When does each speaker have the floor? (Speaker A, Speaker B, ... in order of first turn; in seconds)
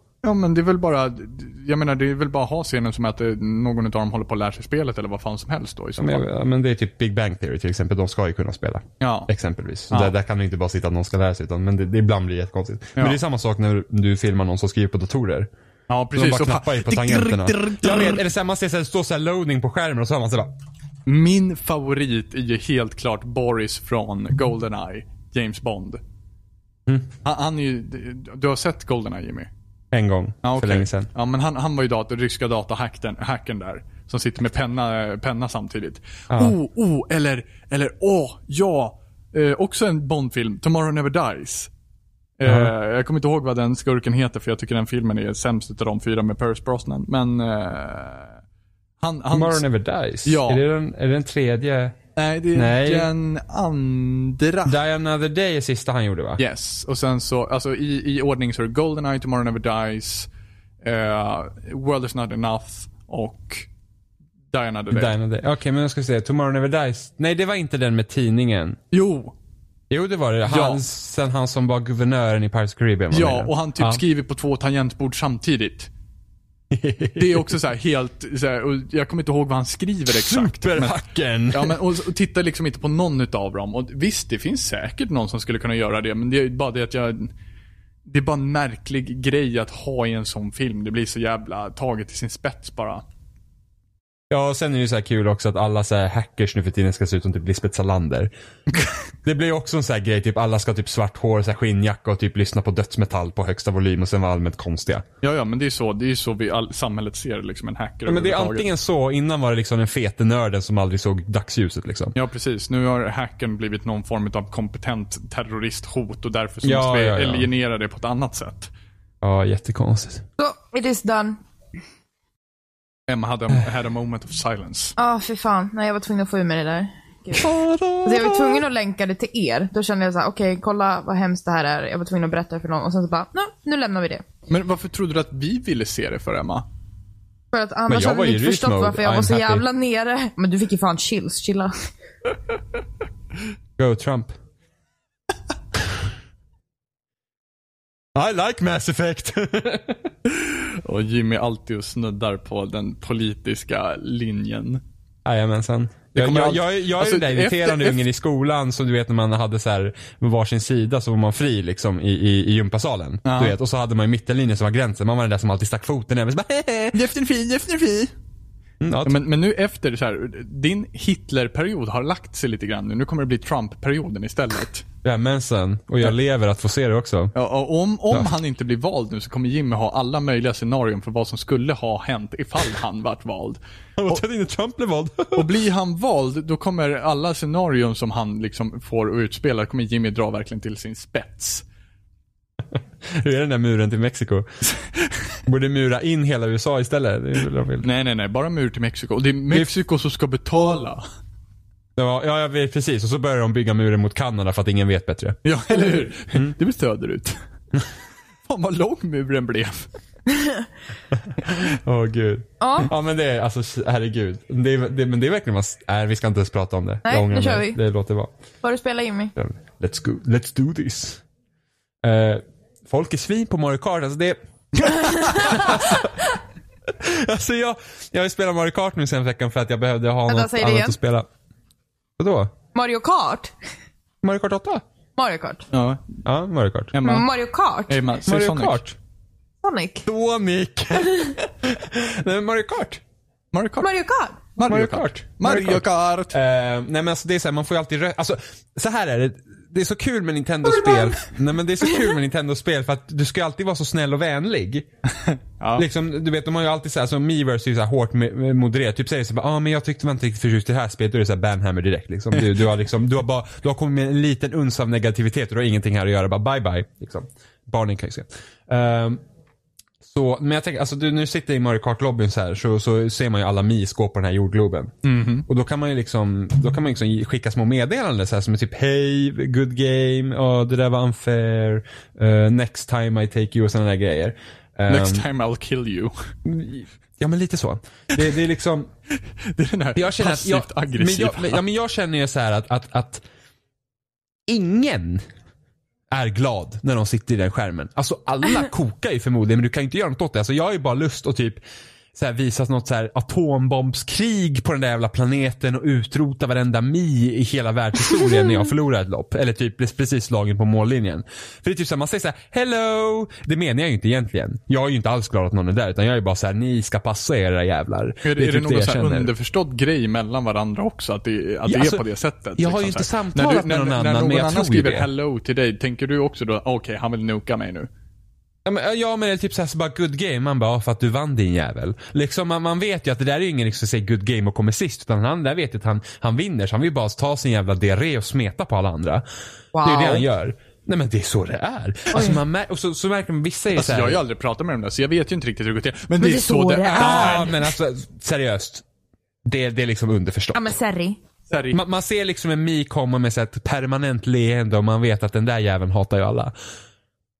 Speaker A: 0.2-6.2, 9.0-9.3, 15.9-18.2, 21.1-26.0, 27.2-29.5, 30.4-41.7, 42.4-48.4, 49.0-49.6, 50.2-50.6, 52.1-54.8, 56.4-60.3, 60.8-63.7, 64.5-65.1, 68.9-69.3, 70.5-70.8, 73.1-75.9, 77.2-80.9, 81.5-87.3, 88.1-93.0, 105.2-108.7, 112.1-118.7, 123.1-124.9, 134.5-136.6, 150.3-154.8, 156.1-158.0, 163.2-163.6, 166.9-168.1, 169.0-174.8, 177.3-184.2, 185.3-191.6, 197.8-201.0, 205.4-207.4, 208.5-209.9, 235.7-236.0, 236.9-237.2, 237.9-238.8, 243.5-243.9, 244.6-246.4, 255.2-255.8, 275.0-275.5, 284.9-286.1, 289.4-291.6, 318.2-327.9, 343.7-347.5, 351.5-351.8
Speaker B: 6.0-15.5, 16.1-20.5, 29.9-31.1, 42.4-42.7, 49.3-52.0, 52.5-53.1, 54.6-56.4, 64.9-68.8, 69.9-74.0, 76.7-77.5, 80.1-81.8, 94.3-98.3, 99.2-105.0, 108.0-112.1, 116.6-117.5, 119.2-120.2, 127.4-128.6, 137.9-139.6, 143.8-144.3, 148.1-150.1, 155.2-167.0, 168.8-169.2, 175.0-177.3, 184.0-185.5, 192.7-194.5, 195.4-197.9, 201.9-205.4, 211.1-218.3, 219.3-221.2, 222.0-226.2, 226.9-231.3, 232.2-232.5, 234.2-234.8, 236.2-236.9, 238.2-238.9, 240.0-243.0, 244.7-254.8, 255.8-269.2, 270.0-274.9, 275.5-285.2, 286.4-288.9, 289.9-293.2, 294.5-295.2, 296.1-301.6, 302.1-319.3, 321.6-322.0, 322.6-325.1, 328.6-339.2, 339.8-344.2, 346.9-348.8, 349.4-350.7, 351.7-356.5
Speaker C: 120.4-121.4, 125.0-134.2, 137.5-141.7, 210.3-210.7, 212.6-212.9, 217.1-217.8, 218.6-219.3, 225.0-225.7, 230.3-230.9, 232.7-233.5, 235.2-235.7, 237.0-238.1, 239.6-240.1, 243.8-244.4, 250.7-251.1, 251.8-252.1, 339.7-340.2, 342.1-342.4, 346.2-347.6, 350.5-351.2